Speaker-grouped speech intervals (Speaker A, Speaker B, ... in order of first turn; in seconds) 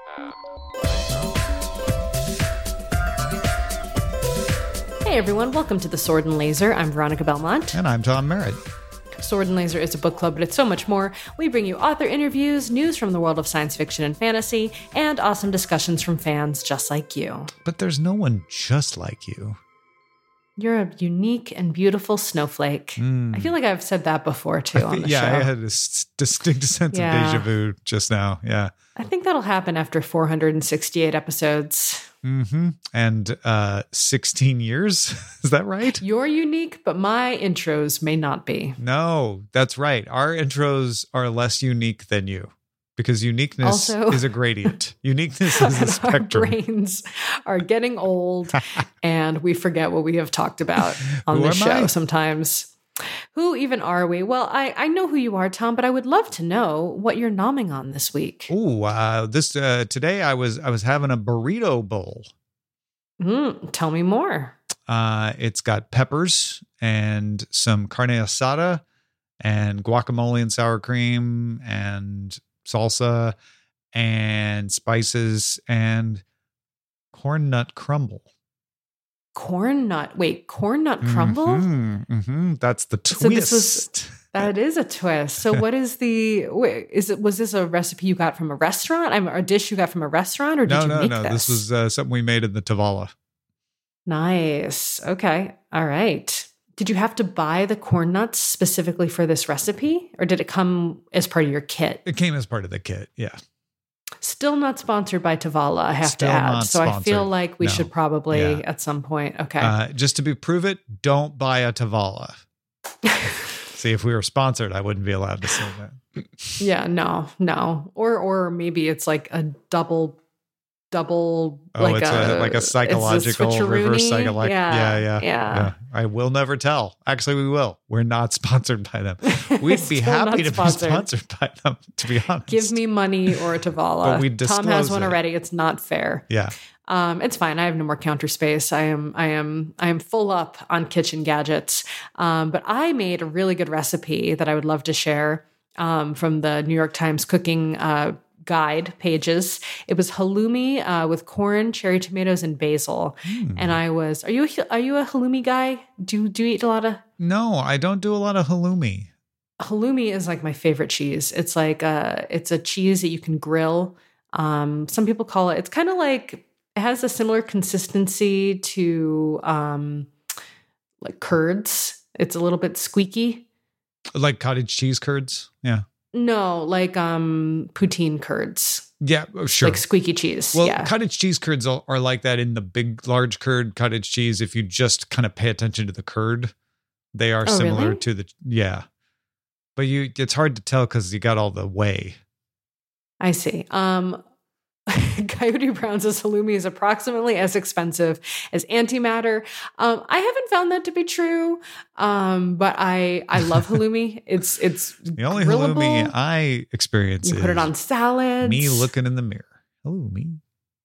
Speaker A: 5.0-7.8, 9.2-17.5, 20.6-25.5, 26.9-27.5, 28.9-32.1, 36.0-38.8, 43.6-44.7, 45.5-52.7, 53.3-58.5, 63.2-64.6, 79.3-81.7, 83.1-91.6, 94.0-102.0, 104.2-109.7, 113.0-113.5, 116.6-120.2, 120.9-125.7, 129.2-131.1, 132.5-136.2, 136.9-157.0, 159.6-170.1, 171.0-173.4, 176.1-178.9, 179.6-180.9, 187.4-188.0, 193.2-194.2, 194.9-206.1, 207.2-208.9
Speaker B: 7.7-8.6, 17.6-19.6, 23.0-23.5, 24.7-28.7, 32.2-36.0, 38.8-46.5, 51.2-51.9, 58.5-62.3, 64.9-68.8, 69.4-73.3, 73.9-76.2, 77.1-78.2, 81.0-84.3, 90.7-93.1, 102.0-103.4, 106.0-108.6, 109.6-112.4, 113.7-116.6, 121.7-132.7, 134.0-135.2, 153.2-153.8, 157.2-159.1, 174.1-175.8, 179.0-179.8, 180.5-186.5, 187.1-188.8, 189.8-192.2, 205.2-207.7, 208.4-210.4